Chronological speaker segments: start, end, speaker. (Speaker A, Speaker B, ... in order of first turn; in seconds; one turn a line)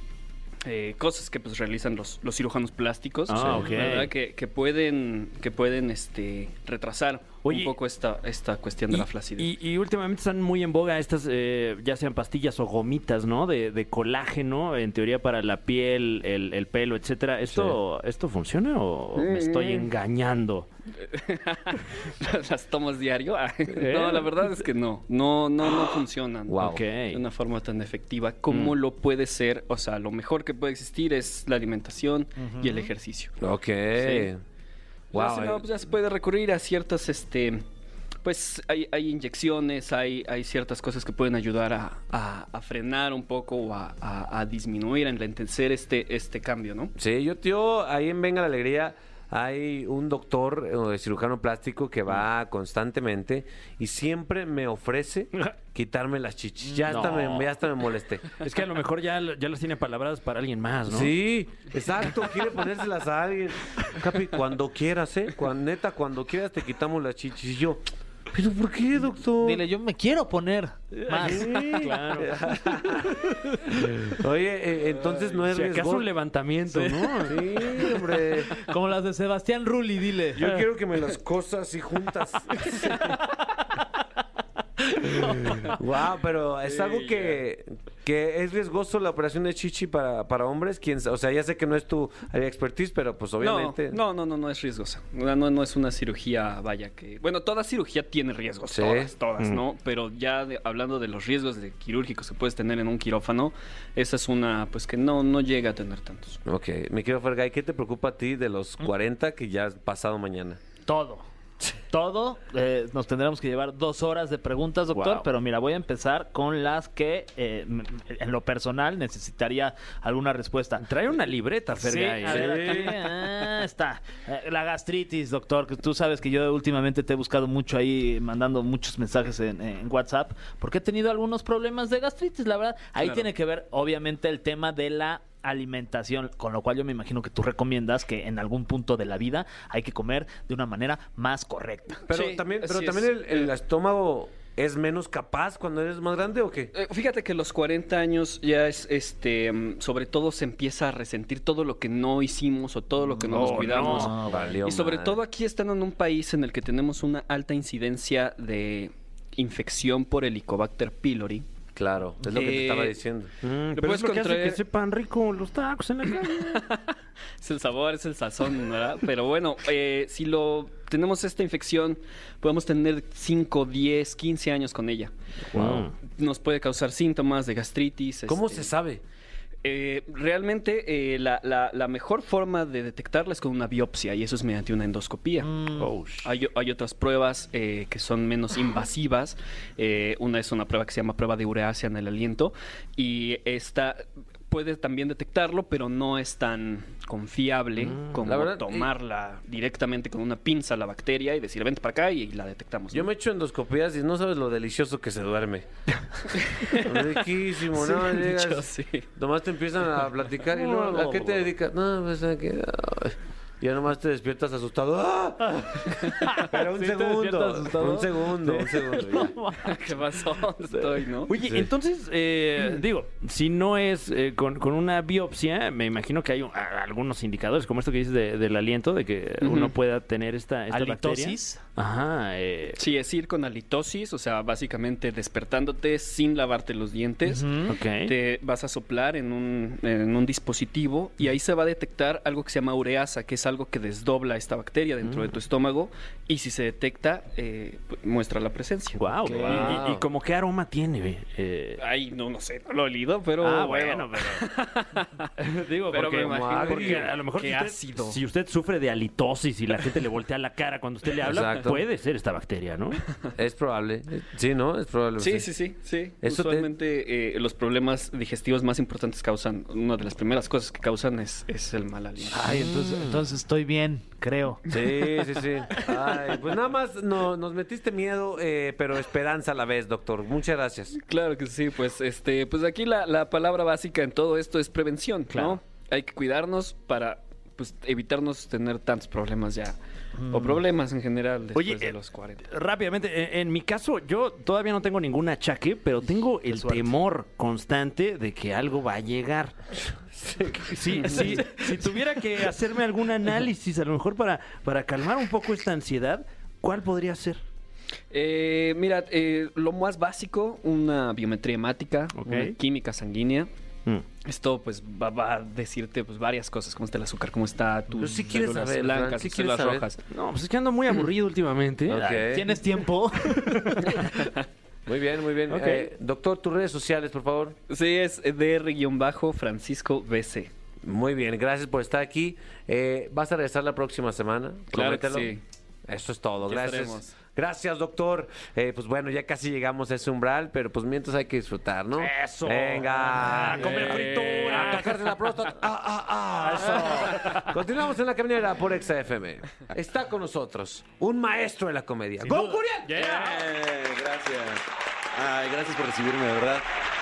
Speaker A: 0.6-9.5
Speaker B: 3.3-4.1
Speaker C: 3.6-4.0
Speaker B: 7.5-7.7
Speaker B: 8.9-20.7
Speaker D: 17.5-17.8
Speaker A: 19.2-19.9
Speaker A: 21.0-33.4
Speaker B: 23.7-24.3
Speaker D: 26.5-26.8
Speaker B: 26.6-27.2
Speaker C: 32.4-32.9
Speaker D: 33.4-34.4
Speaker A: 34.0-34.3
Speaker D: 35.1-35.6
Speaker A: 35.1-37.6
Speaker A: 38.2-46.9
Speaker D: 47.0-58.3
Speaker C: 56.6-57.0
Speaker B: 56.9-57.6
Speaker B: 58.4-61.2
Speaker D: 60.9-67.8
Speaker B: 61.8-62.1
Speaker D: 68.3-69.6
Speaker C: 69.4-72.2
Speaker B: 71.0-74.2
Speaker D: 72.2-73.1
Speaker D: 74.2-76.1
Speaker A: 75.0-75.2
Speaker B: 75.5-77.7
Speaker A: 76.7-78.7
Speaker D: 77.2-78.6
Speaker C: 78.7-80.5
Speaker D: 80.3-83.0
Speaker A: 82.5-83.2
Speaker A: 85.0-85.8
Speaker D: 85.8-94.0
Speaker A: 86.6-87.4
Speaker A: 93.4-106.4
Speaker D: 98.7-99.1
Speaker D: 106.5-110.6
Speaker C: 110.9-120.8
Speaker B: 114.9-115.3
Speaker B: 120.8-123.3
Speaker C: 121.8-142.0
Speaker D: 122.3-122.9
Speaker A: 133.0-133.3
Speaker D: 142.1-146.7
Speaker A: 142.1-143.5
Speaker A: 146.7-161.5
Speaker B: 153.3-154.3
Speaker D: 153.5-155.2
Speaker C: 153.7-154.3
Speaker D: 161.8-163.3
Speaker A: 162.2-163.0
Speaker B: 163.4-166.7
Speaker A: 163.7-164.6
Speaker A: 166.2-166.8
Speaker A: 167.4-175.1
Speaker B: 175.5-175.9
Speaker D: 175.6-175.9
Speaker A: 175.7-178.7
Speaker D: 178.3-179.0
Speaker A: 179.6-185.6
Speaker C: 185.4-185.9
Speaker B: 185.8-186.3
Speaker A: 186.2-203.1
Speaker B: 197.8-198.3
Speaker D: 198.3-198.9
Speaker D: 202.9-205.7
Speaker A: 206.2-209.1
Speaker D: 206.7-219.3
Speaker C: 210.5-211.3
Speaker C: 216.2-219.9
Speaker A: 219.7-221.3
Speaker B: 221.3-232.8
Speaker A: 229.4-229.8
Speaker C: 230.7-231.6
Speaker A: 232.8-249.9
Speaker C: 237.3-237.8
Speaker B: 237.7-238.1
Speaker B: 249.0-251.8
Speaker D: 249.2-250.0
Speaker A: 251.8-255.3
Speaker B: 253.4-254.4
Speaker B: 255.4-263.2
Speaker A: 255.9-258.2
Speaker D: 256.2-257.1
Speaker D: 261.2-261.8
Speaker D: 263.4-265.5
Speaker A: 265.2-272.5
Speaker D: 266.2-266.7
Speaker C: 272.3-274.6
Speaker B: 272.4-273.1
Speaker D: 274.7-281.0
Speaker A: 274.7-276.4
Speaker A: 280.9-289.8
Speaker B: 285.3-285.6
Speaker C: 290.2-290.6
Speaker A: 290.3-292.5
Speaker B: 291.6-299.9
Speaker C: 296.5-296.9
Speaker B: 300.5-307.4
Speaker A: 300.9-301.8
Speaker A: 308.1-313.5
Speaker B: 312.2-312.6
Speaker A: 314.2-320.0
Speaker D: 318.0-319.9
Speaker B: 320.1-322.3
Speaker D: 321.9-322.5
Speaker C: 322.0-323.9
Speaker B: 323.3-324.1
Speaker D: 324.9-327.6
Speaker B: 325.5-325.9
Speaker A: 327.7-330.5
Speaker D: 330.8-335.4
Speaker A: 334.7-335.4
Speaker D: 335.9-353.1
Speaker A: 336.5-337.2
Speaker B: 342.0-345.1
Speaker C: 343.1-344.0
Speaker A: 343.7-344.9
Speaker B: 346.5-347.5
Speaker C: 352.2-352.6
Speaker B: 352.3-353.5
Speaker E: 352.9-356.7